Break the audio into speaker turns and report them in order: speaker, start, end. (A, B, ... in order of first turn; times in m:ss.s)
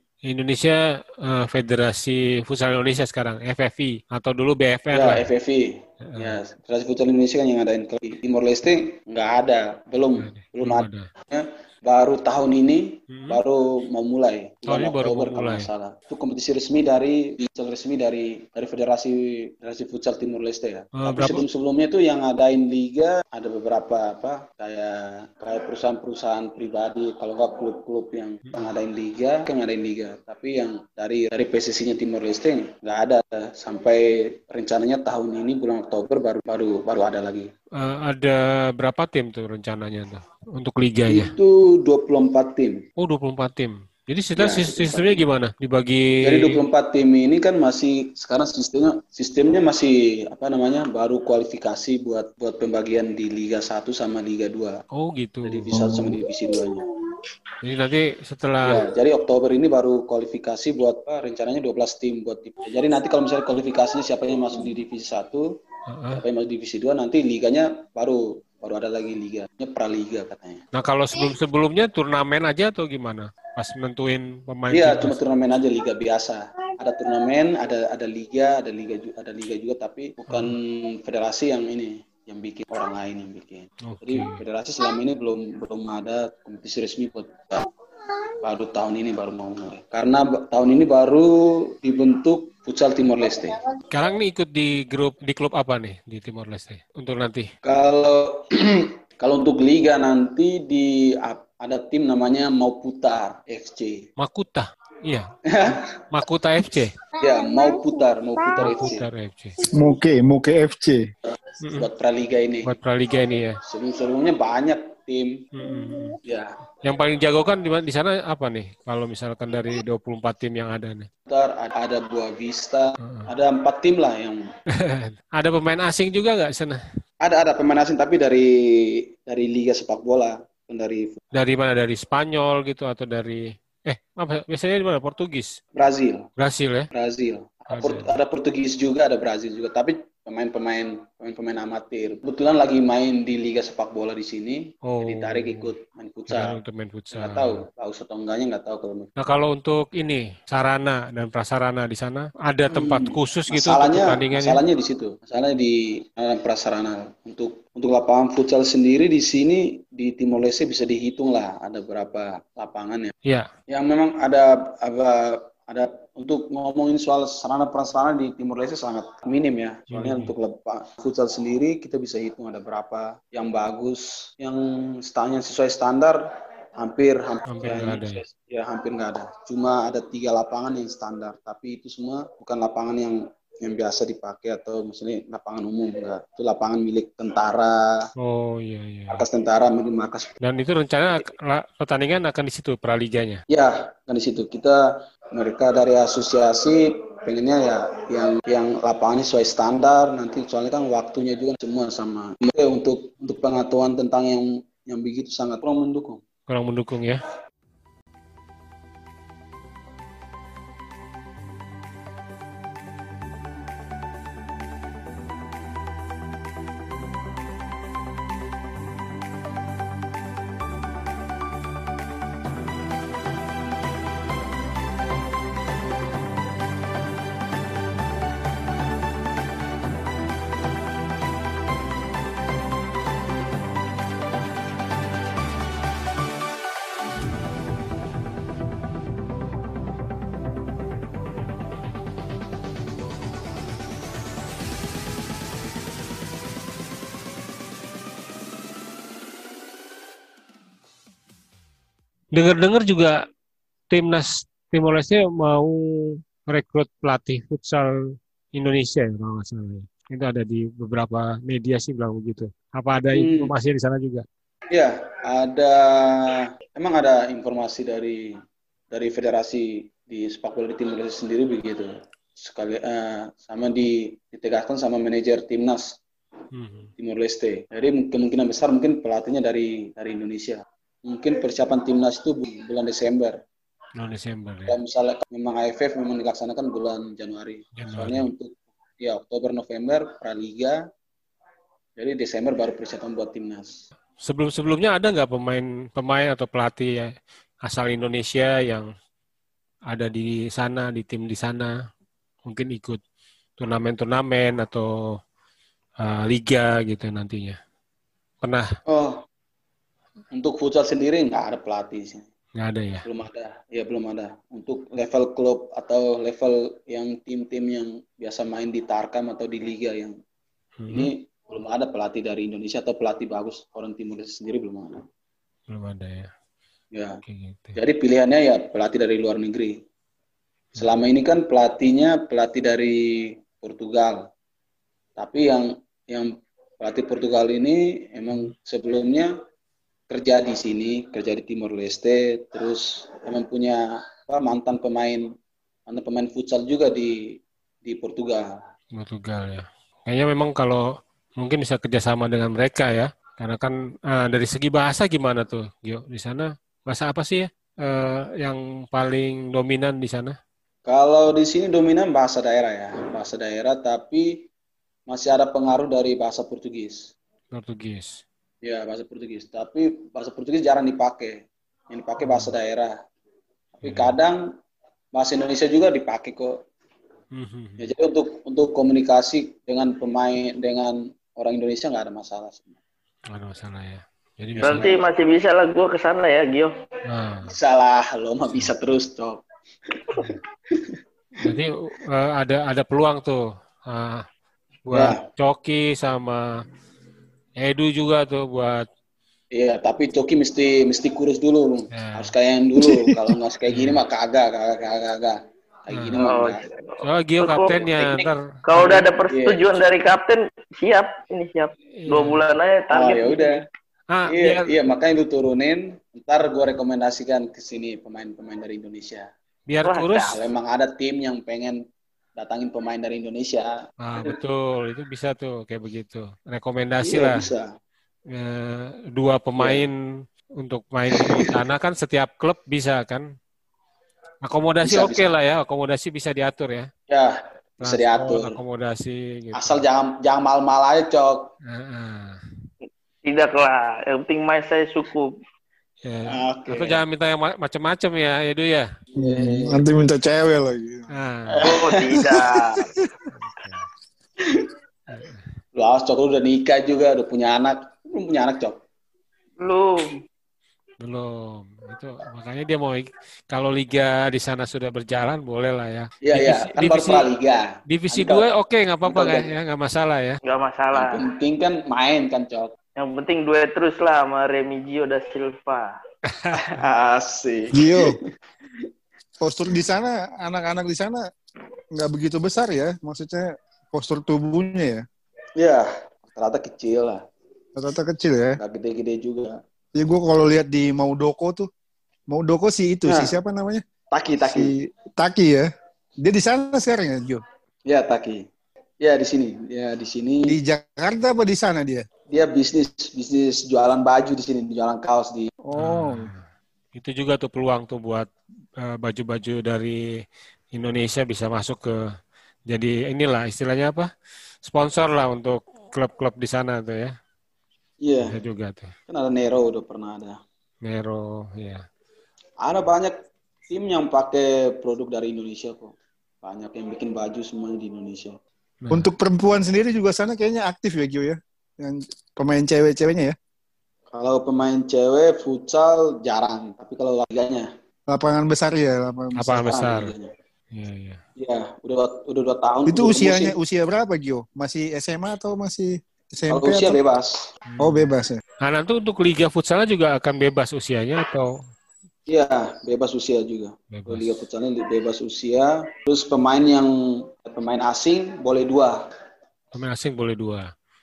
0:00.2-0:05.3 A
0:04.9-0:37.5 B
0:06.0-0:06.4 A
0:10.2-0:11.1 A
0:13.1-0:13.4 A
0:14.7-0:15.7 A
0:21.0-0:21.4 A
0:37.8-0:41.3 A
0:41.1-0:42.8 B
0:43.0-0:46.7 A
0:44.4-0:45.2 B
0:46.2-0:54.8 B
0:54.9-0:55.8 A
0:55.4-0:56.8 B
0:55.7-0:56.2 C
0:57.6-0:58.8 A
0:58.6-1:05.5 B
1:05.9-1:06.2 A
1:06.1-1:10.6 B
1:10.7-1:15.2 A
1:14.7-1:27.6 B
1:20.3-1:20.5 A
1:23.9-1:24.4 A
1:28.4-1:33.6 B
1:33.9-1:37.5 A
1:37.6-1:44.1 B
1:44.2-1:47.0 A
1:45.5-1:46.0 B
1:47.2-1:49.0 B
1:48.6-1:49.6 A
1:49.7-1:51.1 C
1:51.6-1:51.9 A
1:51.6-1:52.8 B
1:52.6-1:53.6 A
1:53.6-1:55.4 B
1:55.5-1:56.2 A
1:56.2-1:56.5 B
1:56.8-2:01.1 A
2:01.3-2:04.4 B
2:03.0-2:03.3 A
2:04.7-2:06.8 A
2:07.2-2:11.2 B
2:11.3-2:15.6 A
2:15.8-2:16.3 B
2:16.4-2:16.9 A
2:16.9-2:26.6 B
2:17.7-2:18.2 A
2:24.8-2:25.7 A
2:26.3-2:27.6 A
2:27.1-2:29.1 B
2:29.2-2:34.6 A
2:32.7-2:43.1 B
2:43.7-2:56.2 B
2:49.9-2:50.3 A
2:56.8-3:08.0 B
2:57.5-2:58.2 A
3:08.2-3:09.2 A
3:09.1-3:10.3 B
3:10.4-3:13.4 A
3:13.5-3:14.8 B
3:15.3-3:26.2 B
3:26.5-3:27.2 A
4:12.3-4:13.2 A
4:13.9-4:18.0 A
4:18.6-4:24.2 A
4:23.2-4:23.5 B
4:24.7-4:28.3 B
4:28.9-4:36.0 B
4:36.5-4:36.9 A
4:37.0-4:43.4 B
4:44.0-4:44.8 A
4:44.7-4:50.8 B
4:47.8-4:48.2 A
4:52.0-4:53.8 B
4:54.2-4:57.1 A
4:57.6-4:58.9 A
4:59.9-5:01.7 A
5:02.5-5:03.0 A
5:03.6-5:05.2 A
5:06.0-5:07.6 A
5:08.9-5:09.2 B
5:10.3-5:12.3 B
5:12.6-5:13.1 A
5:13.0-5:20.2 B
5:20.8-5:21.1 A
5:20.9-5:25.0 B
5:25.7-5:26.3 A
5:26.9-5:27.2 B
5:27.2-5:27.8 A
5:27.8-5:29.8 B
5:30.7-5:31.0 A
5:30.8-5:34.3 B
5:35.2-5:39.3 B
5:40.1-5:45.3 B
5:45.9-5:47.2 B
5:47.8-5:48.5 B
5:48.9-6:00.4 A
6:00.9-6:04.5 B
6:05.1-6:07.0 B
6:07.5-6:08.2 A
6:08.6-6:12.9 B
6:12.2-6:12.5 A
6:13.8-6:14.4 B
6:13.8-6:14.2 A
6:15.2-6:16.6 B
6:17.3-6:17.9 A
6:17.8-6:22.8 B
6:23.3-6:25.0 A
6:24.6-6:24.9 B
6:24.6-6:26.7 D
6:27.1-6:27.6 A
6:27.4-6:29.4 B
6:30.1-6:31.0 B
6:31.4-6:34.3 A
6:34.9-6:36.5 A
6:34.9-6:35.2 B
6:37.6-6:38.9 A
6:39.5-6:46.6 B
6:41.9-6:42.3 A
6:42.9-6:43.2 C
6:43.7-6:44.0 A
6:45.9-6:46.2 A
6:46.2-6:47.8 D
6:47.0-6:49.1 A
6:47.8-6:48.3 B
6:48.7-6:53.6 D
6:48.8-6:49.8 B
6:52.0-6:52.4 A
6:52.9-6:53.6 B
6:54.1-6:54.7 A
6:54.3-6:59.3 B
6:59.7-7:00.4 A
6:59.8-7:00.3 D
7:00.2-7:01.8 B
7:02.4-7:04.4 B
7:04.0-7:07.5 A
7:07.0-7:07.7 B
7:08.3-7:10.0 A
7:09.6-7:09.8 B
7:10.6-7:13.3 A
7:11.1-7:11.5 B
7:14.4-7:16.9 A
7:14.8-7:15.3 B
7:17.1-7:18.6 B
7:17.8-7:19.8 A
7:19.6-7:21.5 B
7:21.7-7:22.4 A
7:22.8-7:25.4 D
7:26.0-7:28.9 A
7:26.3-7:27.0 B
7:29.2-7:31.1 C
7:29.2-7:29.8 B
7:31.1-7:31.7 A
7:31.5-7:32.8 B
7:31.6-7:32.9 D
7:33.3-7:33.9 A
7:35.1-7:35.4 A
7:35.8-7:38.8 B
7:39.6-7:40.1 D
7:41.0-7:47.3 A
7:46.2-7:48.5 B
7:47.9-7:50.4 A
7:49.1-7:49.5 B
7:50.4-7:51.2 D
7:50.9-7:52.7 B
7:53.0-7:56.0 D
7:56.3-7:56.8 A
7:56.5-7:58.2 B
7:57.7-7:58.2 C
7:59.4-8:01.2 C
8:02.0-8:05.0 C
8:05.6-8:07.2 B
8:07.8-8:08.6 C
8:08.6-8:09.6 B
8:10.0-8:11.7 C
8:12.3-8:13.8 C
8:13.1-8:13.4 B
8:14.1-8:14.7 B
8:14.5-8:15.7 C
8:16.2-8:17.4 C
8:17.9-8:18.4 B
8:19.0-8:20.6 B
8:20.5-8:22.0 C
8:22.3-8:25.5 B
8:25.6-8:26.3 C
8:25.8-8:26.4 A
8:27.0-8:30.0 A
8:30.7-8:32.1 A
8:32.7-8:34.1 A
8:34.6-8:37.1 A
8:38.0-8:38.4 B
8:38.3-8:38.9 A
8:39.1-8:40.4 B
8:40.8-8:41.8 A
8:42.6-8:43.2 B
8:43.7-8:48.4 B
8:48.8-8:49.1 A
8:48.9-8:53.4 C
8:54.1-8:57.7 B
8:58.1-8:59.5 C
8:59.4-9:00.1 A
8:59.5-9:00.3 B
9:00.7-9:01.2 A
9:01.4-9:03.6 B
9:02.9-9:07.0 C
9:06.5-9:07.5 B
9:07.7-9:08.1 A
9:07.8-9:08.4 C
9:08.6-9:11.5 A
9:12.3-9:19.0 B
9:13.9-9:14.4 A
9:19.7-9:20.7 A